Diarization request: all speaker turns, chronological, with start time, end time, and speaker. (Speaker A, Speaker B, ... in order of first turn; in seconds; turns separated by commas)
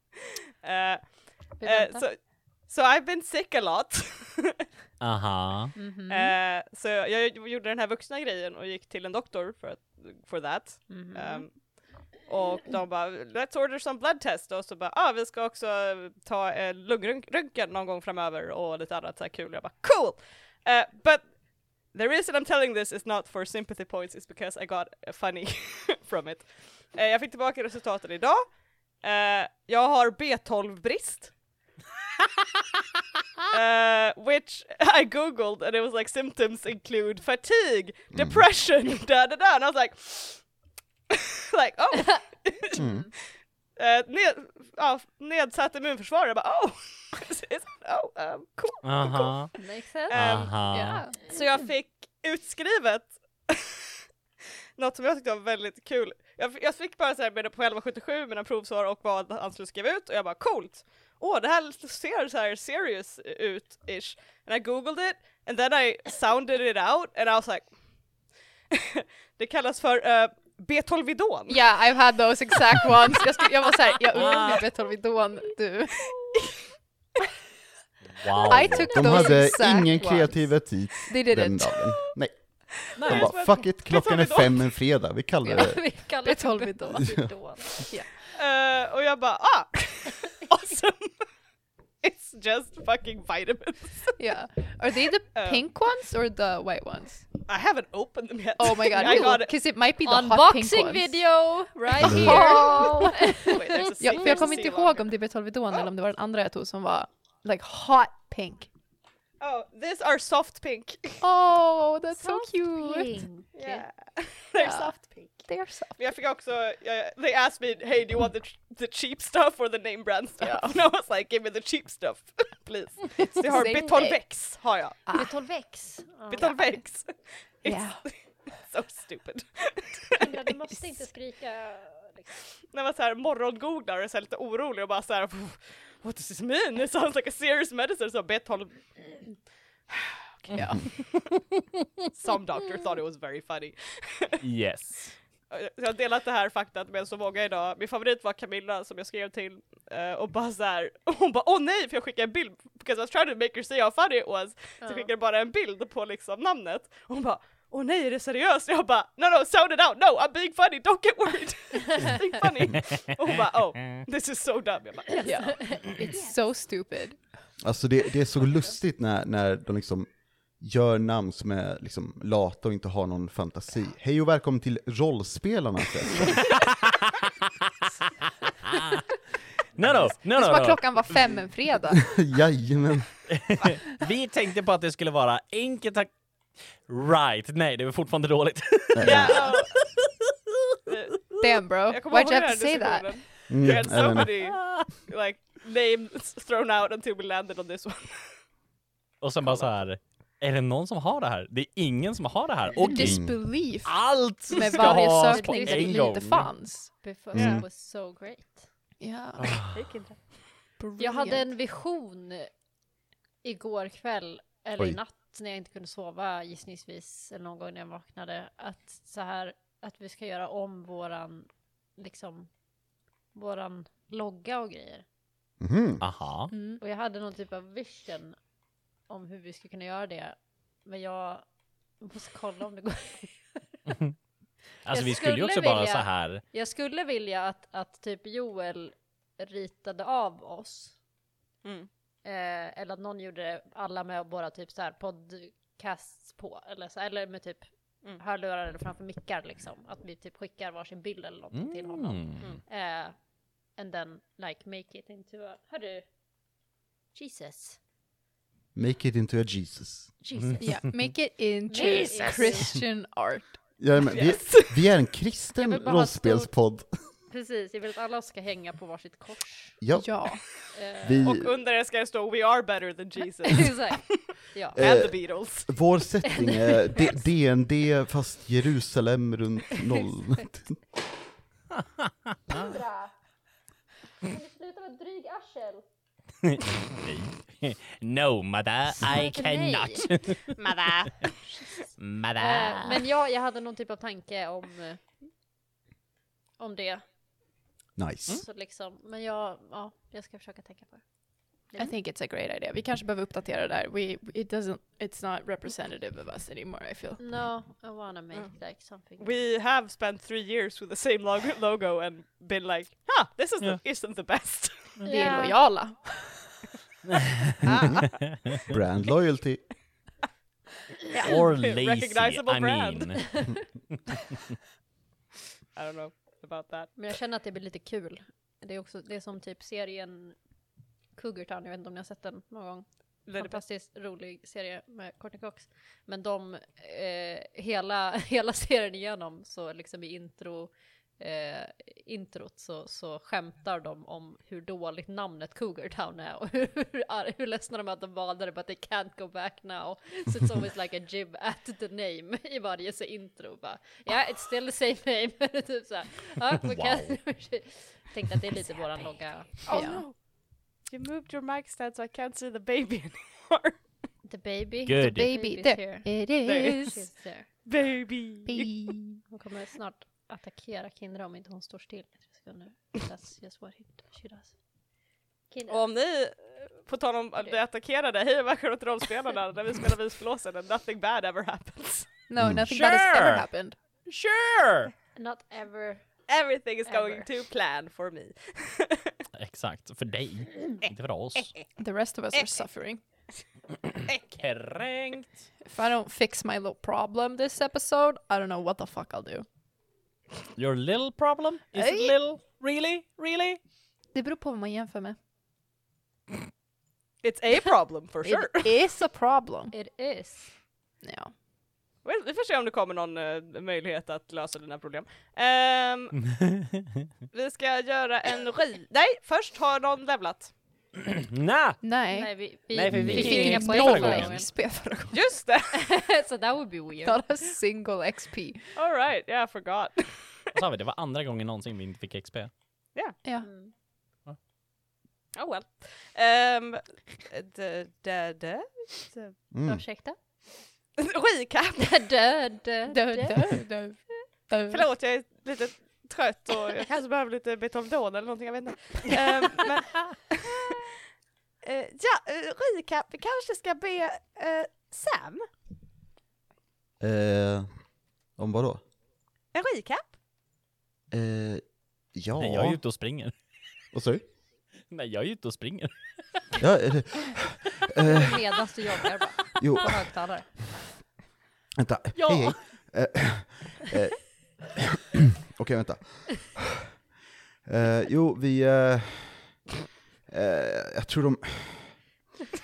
Speaker A: 0.6-4.6, Speaker B: 1.6-2.0, Speaker C: 5.0-5.8, Speaker B: 5.8-6.3, Speaker A: 6.1-11.6, Speaker B: 10.9-11.4, Speaker A: 12.2-31.3, Speaker A: 33.5-40.4, Speaker D: 38.1-38.4, Speaker A: 41.1-42.8, Speaker D: 42.8-43.1, Speaker A: 43.8-49.5, Speaker C: 48.8-49.5, Speaker B: 49.5-50.5, Speaker A: 50.1-53.7, Speaker C: 50.1-51.0, Speaker E: 50.6-51.1, Speaker A: 54.8-67.7, Speaker A: 68.7-71.7, Speaker E: 71.5-76.1, Speaker C: 74.2-74.6, Speaker C: 78.1-79.0, Speaker E: 78.4-80.5, Speaker B: 78.6-79.3, Speaker D: 78.9-82.4, Speaker E: 81.1-81.8, Speaker A: 82.9-84.7, Speaker C: 83.0-83.4, Speaker D: 83.0-85.8, Speaker E: 85.4-87.2, Speaker B: 85.5-87.7, Speaker E: 87.9-88.2, Speaker A: 88.2-91.2, Speaker A: 92.0-94.2, Speaker E: 94.2-97.3, Speaker A: 95.3-95.7, Speaker A: 97.4-99.6, Speaker E: 98.6-101.2, Speaker B: 100.0-104.6, Speaker E: 102.0-108.7, Speaker D: 102.0-102.4, Speaker A: 102.2-102.8, Speaker A: 103.4-105.1, Speaker A: 109.4-111.2, Speaker E: 111.2-113.2, Speaker B: 112.2-113.8, Speaker A: 113.5-125.0, Speaker E: 114.6-116.0, Speaker E: 120.4-120.8, Speaker E: 123.2-124.2, Speaker E: 125.0-125.3, Speaker B: 125.1-126.6, Speaker A: 126.3-130.3, Speaker E: 127.6-128.0, Speaker B: 130.1-132.4, Speaker A: 132.7-139.3, Speaker A: 139.9-141.1, Speaker E: 140.5-140.9, Speaker A: 142.1-144.4, Speaker C: 144.4-145.2, Speaker A: 145.5-165.7, Speaker B: 154.8-155.1, Speaker E: 165.2-167.2, Speaker B: 165.2-166.2, Speaker D: 167.6-170.1, Speaker D: 170.6-176.5, Speaker C: 176.5-177.3, Speaker C: 178.5-179.0, Speaker C: 179.8-181.4, Speaker E: 180.3-182.0, Speaker D: 182.0-183.1, Speaker C: 183.3-186.1, Speaker C: 186.8-190.7, Speaker D: 188.9-189.4, Speaker A: 189.0-189.8, Speaker A: 190.9-198.4, Speaker E: 191.4-193.2, Speaker D: 193.5-194.3, Speaker C: 194.2-194.9, Speaker C: 199.2-206.5, Speaker A: 199.4-199.8, Speaker E: 202.8-206.9, Speaker D: 202.9-203.4, Speaker B: 204.6-206.2, Speaker B: 207.0-208.7, Speaker D: 207.3-207.6, Speaker E: 209.0-209.6, Speaker C: 209.4-209.7, Speaker A: 209.6-210.3, Speaker E: 210.8-211.5, Speaker B: 211.0-212.5, Speaker B: 213.4-222.5, Speaker B: 223.3-225.0, Speaker D: 225.6-226.0, Speaker C: 226.0-226.5, Speaker E: 226.5-226.8, Speaker B: 226.8-228.3, Speaker B: 229.1-231.4, Speaker B: 232.0-233.7, Speaker C: 234.8-236.4, Speaker B: 234.9-240.9, Speaker B: 242.2-247.6, Speaker B: 248.2-253.2, Speaker C: 251.5-252.5, Speaker B: 253.8-256.1, Speaker B: 257.1-257.8, Speaker D: 258.7-260.1, Speaker B: 260.2-260.8, Speaker E: 260.6-263.6, Speaker B: 261.7-262.7, Speaker A: 262.2-262.6, Speaker D: 263.8-266.9, Speaker A: 264.1-264.8, Speaker B: 265.6-266.5, Speaker B: 267.3-269.8, Speaker D: 269.8-270.3, Speaker E: 269.9-270.4, Speaker B: 270.7-271.2, Speaker D: 271.0-271.5, Speaker A: 271.2-275.7, Speaker B: 273.5-274.8, Speaker D: 274.8-280.8, Speaker B: 276.2-277.2, Speaker C: 282.1-282.7, Speaker B: 282.5-283.1, Speaker B: 284.2-285.8, Speaker C: 286.4-290.9, Speaker B: 289.0-290.1, Speaker A: 290.6-291.6, Speaker C: 292.0-293.0, Speaker B: 292.4-295.0, Speaker B: 296.6-297.0, Speaker D: 297.9-298.4, Speaker B: 298.3-301.0, Speaker B: 301.7-301.9, Speaker E: 301.8-307.2, Speaker B: 307.2-309.3, Speaker A: 309.2-314.9, Speaker B: 315.0-315.6, Speaker E: 315.0-316.6, Speaker C: 317.1-317.6, Speaker A: 317.6-318.1, Speaker D: 317.8-319.6, Speaker A: 321.2-323.4, Speaker C: 321.2-323.4, Speaker B: 323.2-323.6, Speaker A: 325.7-327.0, Speaker B: 326.9-330.4, Speaker B: 331.1-359.8, Speaker A: 333.2-333.6, Speaker C: 356.6-357.2, Speaker A: 359.6-360.1, Speaker E: 359.7-360.0, Speaker A: 360.9-363.8, Speaker B: 364.2-367.5, Speaker C: 364.9-365.3, Speaker E: 365.0-367.0, Speaker A: 366.4-367.0, Speaker A: 367.6-368.8, Speaker E: 368.5-369.2, Speaker B: 369.3-374.6, Speaker B: 375.5-375.9, Speaker A: 375.7-382.1, Speaker E: 382.3-383.7, Speaker D: 382.4-382.6, Speaker C: 382.6-383.5, Speaker C: 384.1-384.9, Speaker B: 385.1-386.1, Speaker A: 386.3-389.2, Speaker B: 386.9-387.3, Speaker C: 389.3-391.5, Speaker E: 391.8-393.0, Speaker A: 394.1-394.4, Speaker C: 394.4-395.4, Speaker E: 395.6-399.4, Speaker C: 400.6-403.6, Speaker E: 401.8-402.1, Speaker E: 404.1-405.2, Speaker A: 407.2-408.8, Speaker E: 408.2-409.7, Speaker B: 409.7-410.5, Speaker E: 411.0-411.3, Speaker A: 412.0-416.1, Speaker C: 416.2-417.0, Speaker A: 417.3-420.5, Speaker C: 421.0-421.8, Speaker E: 421.8-422.3, Speaker B: 422.1-424.5, Speaker C: 422.7-424.4, Speaker E: 422.9-425.2, Speaker A: 425.1-425.8, Speaker B: 425.7-427.2, Speaker E: 427.0-428.6, Speaker A: 428.7-430.6, Speaker C: 430.5-432.5, Speaker E: 433.2-433.5, Speaker B: 433.4-433.7, Speaker A: 435.3-439.3, Speaker D: 439.5-439.8, Speaker B: 439.6-440.2, Speaker A: 441.0-442.0, Speaker B: 441.8-443.7, Speaker E: 442.9-444.9, Speaker A: 444.7-450.9, Speaker A: 451.6-455.4, Speaker D: 457.0-457.7, Speaker D: 458.4-458.8, Speaker A: 459.5-460.1, Speaker D: 461.1-461.6, Speaker D: 462.1-462.8, Speaker C: 462.4-463.3, Speaker D: 463.9-464.2, Speaker C: 464.9-465.9, Speaker D: 466.6-468.4, Speaker B: 468.0-470.5, Speaker D: 469.6-470.1, Speaker D: 471.8-476.9, Speaker D: 477.6-479.7, Speaker D: 480.3-482.0